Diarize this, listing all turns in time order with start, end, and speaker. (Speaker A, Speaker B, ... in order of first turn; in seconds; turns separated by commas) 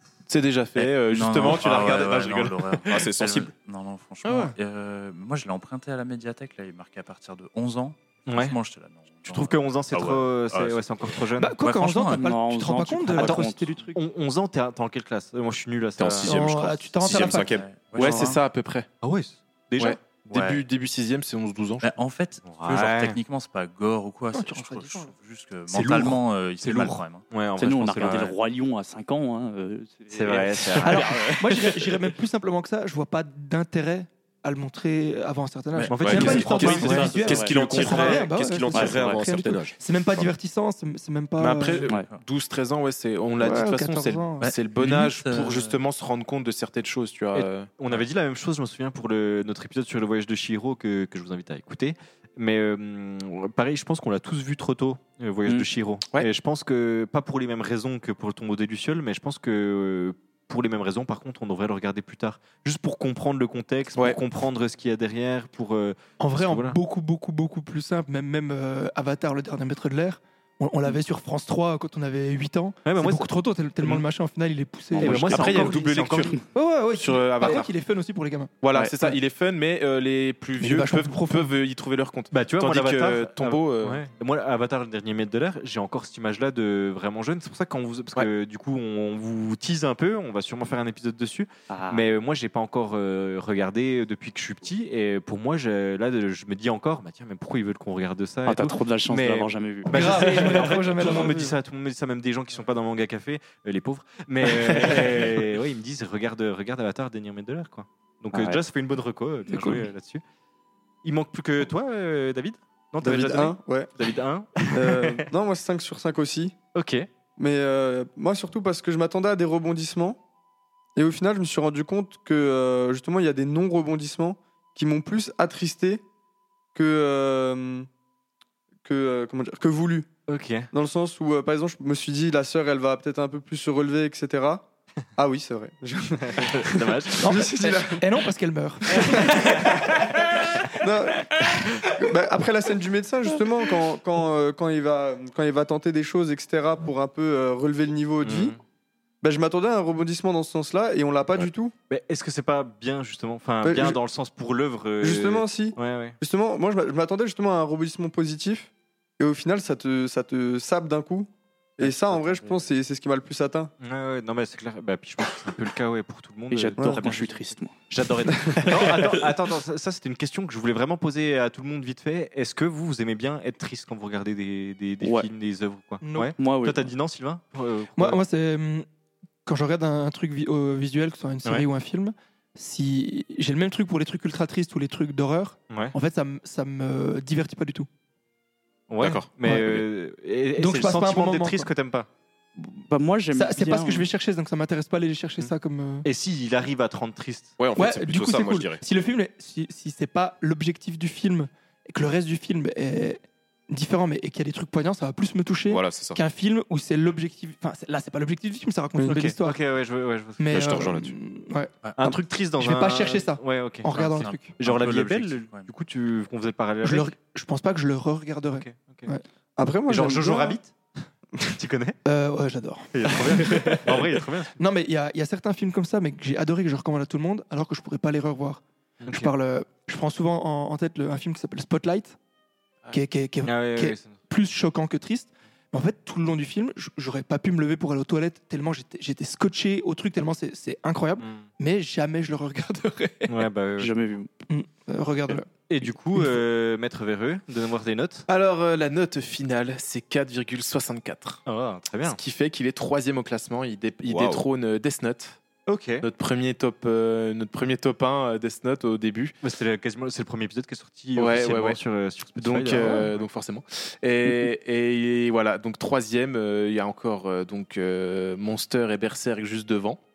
Speaker A: 0.3-2.6, Speaker B: 0.8-12.3, Speaker C: 2.9-3.5, Speaker D: 4.2-4.5, Speaker E: 8.3-8.6, Speaker E: 9.2-11.6, Speaker D: 11.4-13.8, Speaker F: 12.1-13.9, Speaker E: 13.2-16.5, Speaker C: 16.0-17.6, Speaker D: 16.2-17.6, Speaker B: 17.1-18.4, Speaker A: 17.9-18.9, Speaker E: 19.0-20.5, Speaker A: 19.8-21.9, Speaker B: 20.3-20.6, Speaker B: 21.8-27.3, Speaker E: 22.4-23.2, Speaker D: 24.3-25.1, Speaker E: 25.7-28.3, Speaker F: 27.6-31.8, Speaker B: 28.0-28.3, Speaker E: 30.1-31.2, Speaker B: 30.3-31.0, Speaker D: 30.8-41.9, Speaker B: 35.8-36.4, Speaker E: 35.9-37.2, Speaker C: 36.0-40.3, Speaker A: 36.1-38.1, Speaker F: 36.1-38.1, Speaker F: 38.7-39.2, Speaker A: 41.4-47.7, Speaker B: 41.9-42.2, Speaker D: 43.4-44.5, Speaker B: 44.4-45.8, Speaker E: 47.3-66.8, Speaker D: 66.2-75.8, Speaker E: 72.8-73.3, Speaker F: 75.0-75.6, Speaker E: 75.0-76.4, Speaker A: 75.0-76.3, Speaker D: 76.5-79.2, Speaker A: 76.9-77.7, Speaker A: 78.6-84.0, Speaker D: 80.6-81.5, Speaker E: 82.3-110.2, Speaker F: 91.7-92.0, Speaker F: 98.5-101.0, Speaker D: 99.9-101.5, Speaker F: 108.3-108.6, Speaker E: 111.0-115.3, Speaker G: 113.0-113.9, Speaker G: 114.7-116.5, Speaker E: 116.7-117.1, Speaker G: 117.4-120.2, Speaker G: 121.0-126.0, Speaker G: 126.7-127.9, Speaker G: 128.8-130.1, Speaker E: 130.3-130.7, Speaker G: 130.7-134.6, Speaker G: 135.2-138.0, Speaker E: 136.2-137.3, Speaker D: 137.2-139.7, Speaker G: 140.8-141.3, Speaker G: 142.0-148.6, Speaker E: 148.2-148.6, Speaker G: 149.2-151.7, Speaker E: 151.9-156.2, Speaker G: 153.6-154.0, Speaker G: 155.0-163.7, Speaker E: 161.8-162.7, Speaker E: 163.8-178.2, Speaker F: 166.5-169.2, Speaker G: 166.8-167.1, Speaker F: 175.0-175.3, Speaker D: 176.0-176.3, Speaker F: 176.4-176.9, Speaker D: 178.0-178.8, Speaker D: 179.4-187.9, Speaker E: 188.9-192.1, Speaker C: 189.0-189.8, Speaker D: 190.6-191.7, Speaker F: 192.6-194.1, Speaker D: 193.3-196.1, Speaker E: 196.0-197.6, Speaker C: 197.6-198.8, Speaker D: 197.8-209.6, Speaker C: 205.7-206.2, Speaker E: 209.0-210.8, Speaker D: 210.4-211.7, Speaker C: 210.5-211.1, Speaker B: 211.8-212.1, Speaker E: 212.0-217.1, Speaker D: 212.6-214.5, Speaker B: 213.9-215.7, Speaker D: 216.8-219.2, Speaker E: 218.5-219.1, Speaker G: 219.6-220.6, Speaker E: 219.9-220.8, Speaker E: 221.5-222.0, Speaker D: 222.0-223.9, Speaker E: 222.9-224.5, Speaker D: 224.6-232.2, Speaker E: 229.0-229.3, Speaker D: 232.9-243.3, Speaker E: 233.4-234.2, Speaker E: 241.2-241.4, Speaker E: 243.3-243.9, Speaker F: 243.8-244.3, Speaker D: 244.5-245.5, Speaker E: 245.7-248.2, Speaker A: 248.3-251.4, Speaker E: 251.4-252.2, Speaker A: 252.0-255.4, Speaker C: 254.1-254.4, Speaker E: 255.7-256.1, Speaker A: 256.0-259.3, Speaker E: 259.4-263.2, Speaker A: 261.1-261.8, Speaker A: 262.4-270.0